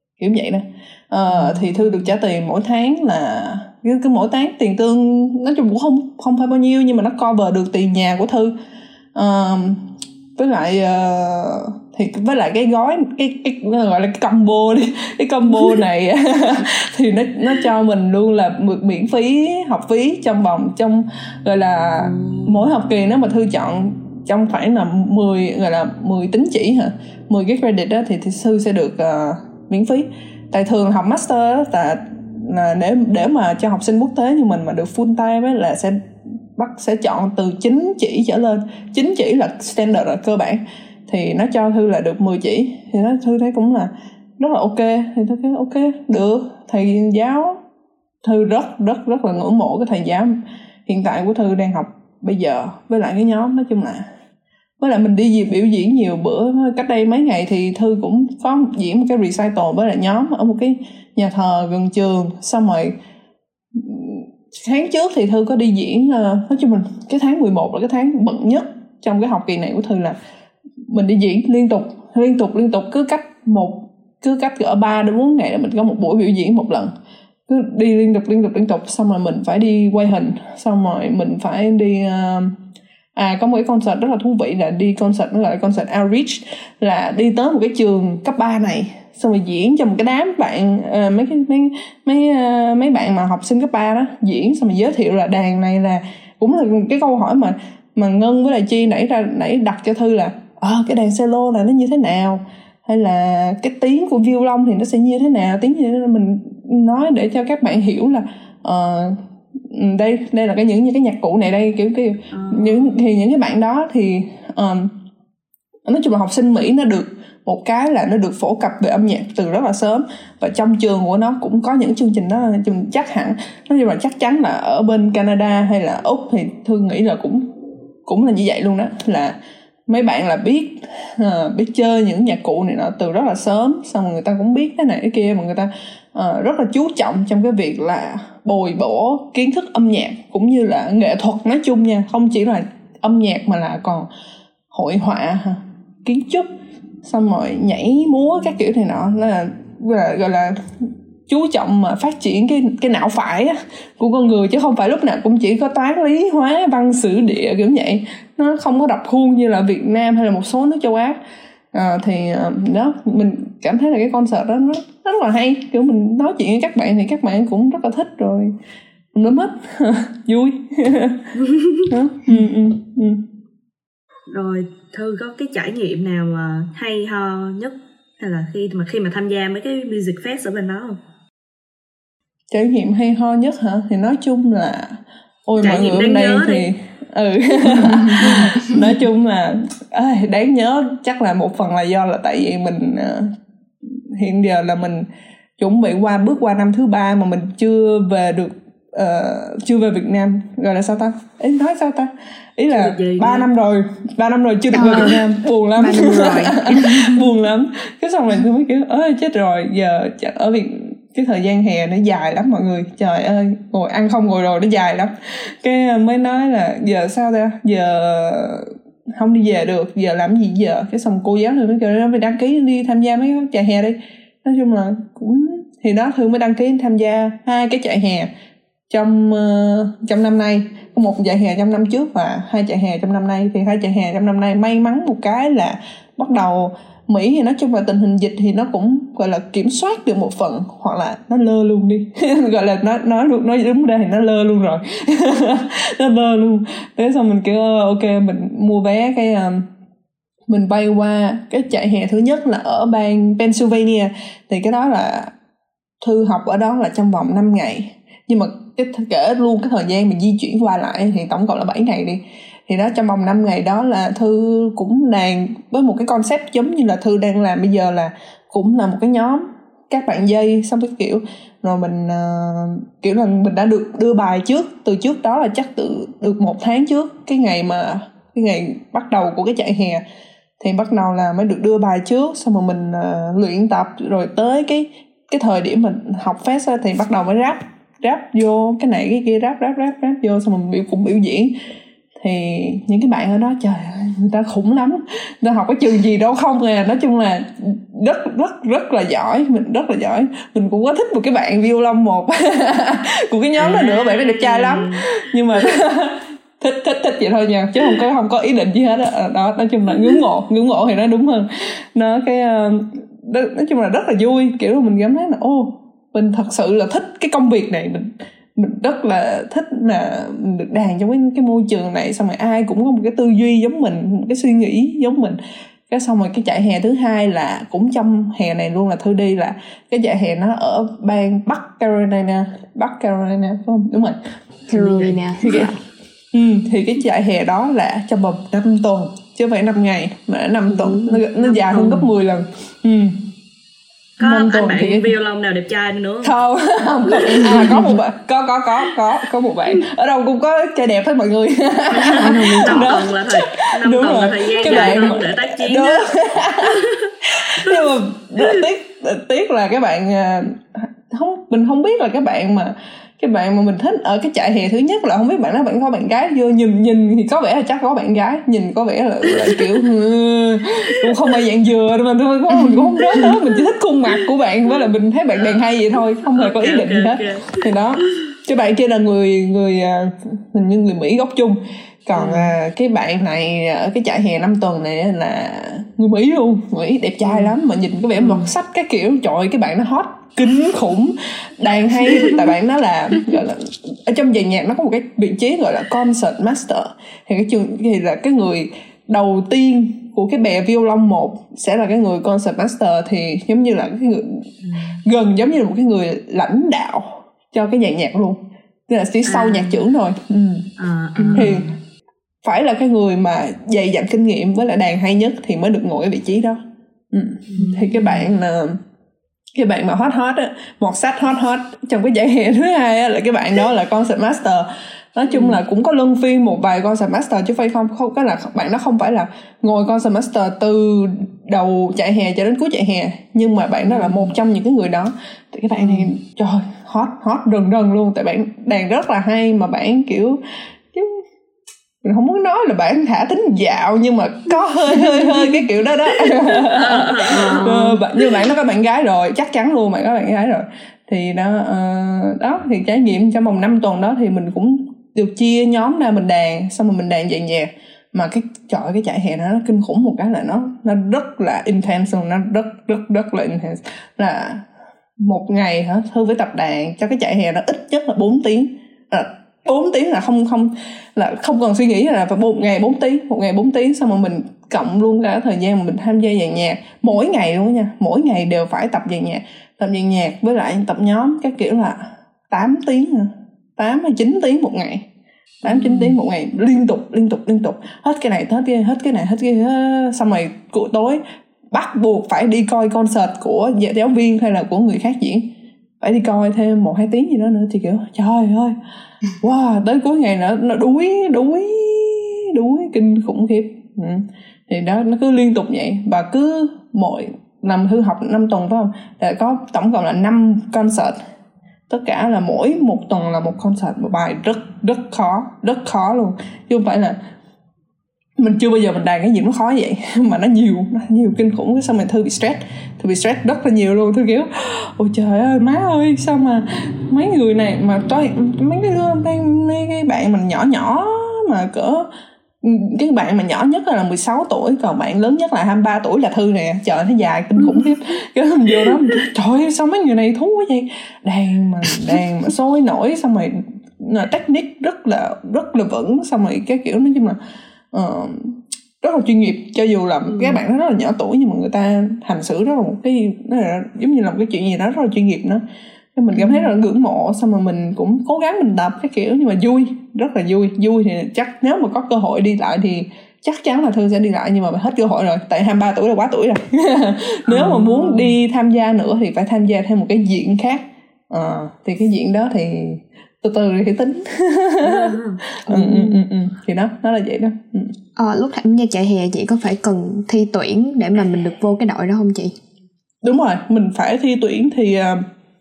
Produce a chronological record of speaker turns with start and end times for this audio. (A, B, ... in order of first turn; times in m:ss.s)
0:00.2-0:08.5 A
0:01.3-0:01.9 B
0:09.2-0:36.0 A
0:22.1-0:22.5 B
0:36.6-0:47.6 A
0:48.2-0:50.4 A
0:50.9-0:54.1 A
0:54.8-1:03.0 A
1:03.7-1:10.2 A
1:10.9-1:16.9 A
1:17.5-1:22.6 A
1:23.2-1:55.0 A
1:52.3-1:53.0 B
1:55.9-2:07.5 A
2:08.1-2:09.4 A
2:09.9-2:24.1 A
2:24.7-2:26.5 A
2:27.0-2:41.2 A
2:41.7-2:48.5 A
2:49.1-2:51.3 A
2:51.4-2:51.9 B
2:51.9-2:53.2 A
2:54.3-3:01.0 B
3:02.5-3:13.3 A
3:05.6-3:06.7 B
3:07.7-3:08.9 C
3:08.2-3:08.6 B
3:14.1-3:15.1 A
3:15.6-3:48.3 A
3:22.7-3:23.5 B
3:24.7-3:27.3 C
3:24.8-3:25.2 B
3:48.9-4:09.7 A
4:10.5-4:15.3 A
4:16.0-4:40.0 A
4:40.6-4:51.6 A
4:52.2-5:25.4 A
5:03.6-5:05.1 B
5:25.9-5:34.2 A
5:34.7-5:35.8 C
5:34.7-5:35.7 A
5:36.3-5:43.2 A
5:40.7-5:41.2 C
5:41.4-5:42.1 B
5:44.2-5:46.3 B
5:44.2-5:45.1 A
5:46.2-6:44.5 A
5:47.1-5:47.9 B
5:47.3-5:47.9 C
5:51.9-5:56.0 B
5:52.2-5:52.9 C
5:56.6-5:57.1 B
6:14.7-6:15.7 B
6:16.2-6:17.6 B
6:22.2-6:22.5 B
6:27.2-6:27.5 B
6:28.2-6:28.5 B
6:44.6-6:45.0 B
6:45.1-6:50.7 A
6:49.3-6:49.8 B
6:50.8-6:51.8 B
6:51.3-6:51.6 A
6:52.4-6:56.6 A
6:57.1-6:58.8 A
6:57.5-6:58.3 B
6:59.6-7:20.4 A
7:05.3-7:05.6 B
7:13.8-7:14.3 B
7:15.8-7:16.1 B
7:20.9-7:21.2 A
7:22.0-7:44.6 A
7:26.7-7:28.0 B
7:27.3-7:27.9 C
7:45.2-8:05.1 A
8:05.6-8:15.5 A
8:05.6-8:06.1 B
8:16.0-8:18.8 A
8:19.4-8:31.2 A
8:31.9-8:37.2 A
8:38.4-8:52.1 A
8:52.6-9:07.4 A
8:57.6-8:57.9 B
9:07.9-9:15.6 A
9:10.3-9:10.6 B
9:16.2-9:35.1 A
9:27.5-9:28.3 B
9:34.8-9:35.4 B
9:35.7-9:37.9 A
9:35.7-9:36.2 C
9:38.2-9:42.5 C
9:43.2-9:45.2 A